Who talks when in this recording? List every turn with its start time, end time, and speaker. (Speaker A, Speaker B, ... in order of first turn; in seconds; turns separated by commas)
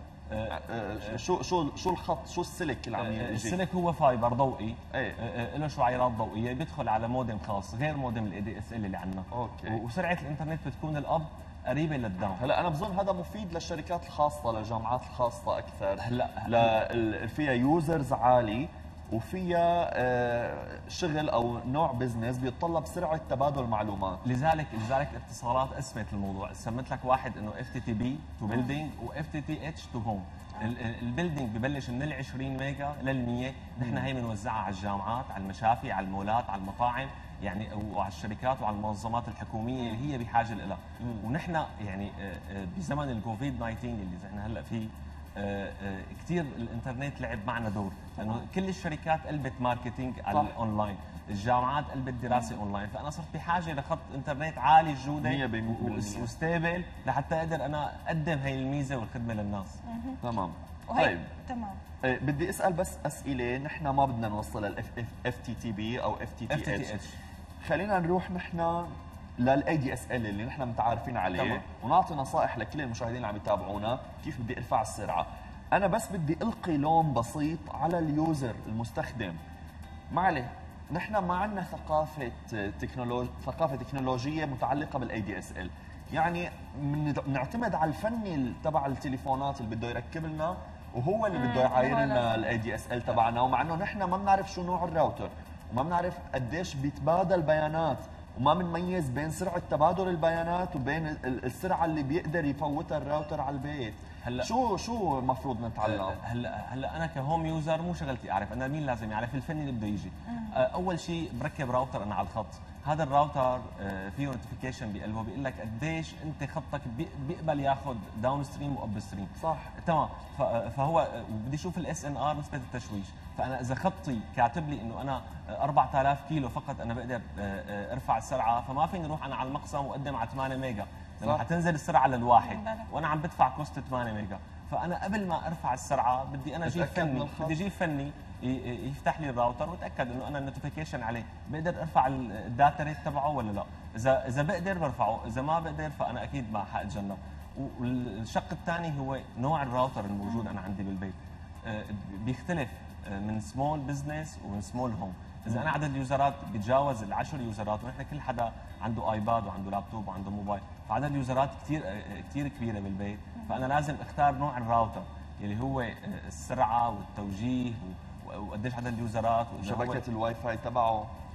Speaker A: 0.3-1.2, Speaker B: 0.5-3.6, Speaker A: 3.0-12.4, Speaker B: 4.9-5.2, Speaker B: 9.3-9.8, Speaker B: 12.4-24.2, Speaker A: 16.0-16.8, Speaker A: 24.2-59.8, Speaker C: 28.5-28.8, Speaker B: 33.8-34.1, Speaker C: 39.8-40.0, Speaker C: 48.2-48.4, Speaker C: 52.3-52.6, Speaker B: 55.2-56.3, Speaker C: 59.9-60.2, Speaker B: 60.2-61.3, Speaker C: 60.9-61.8, Speaker B: 62.0-66.9, Speaker A: 66.5-67.2, Speaker B: 67.6-79.4, Speaker A: 71.3-71.6, Speaker B: 80.1-106.2, Speaker C: 91.3-92.5, Speaker A: 104.2-104.5, Speaker A: 105.8-170.0, Speaker C: 110.3-110.6, Speaker B: 119.4-119.7, Speaker C: 132.4-132.9, Speaker B: 136.6-137.6, Speaker C: 150.3-150.5, Speaker B: 169.6-171.1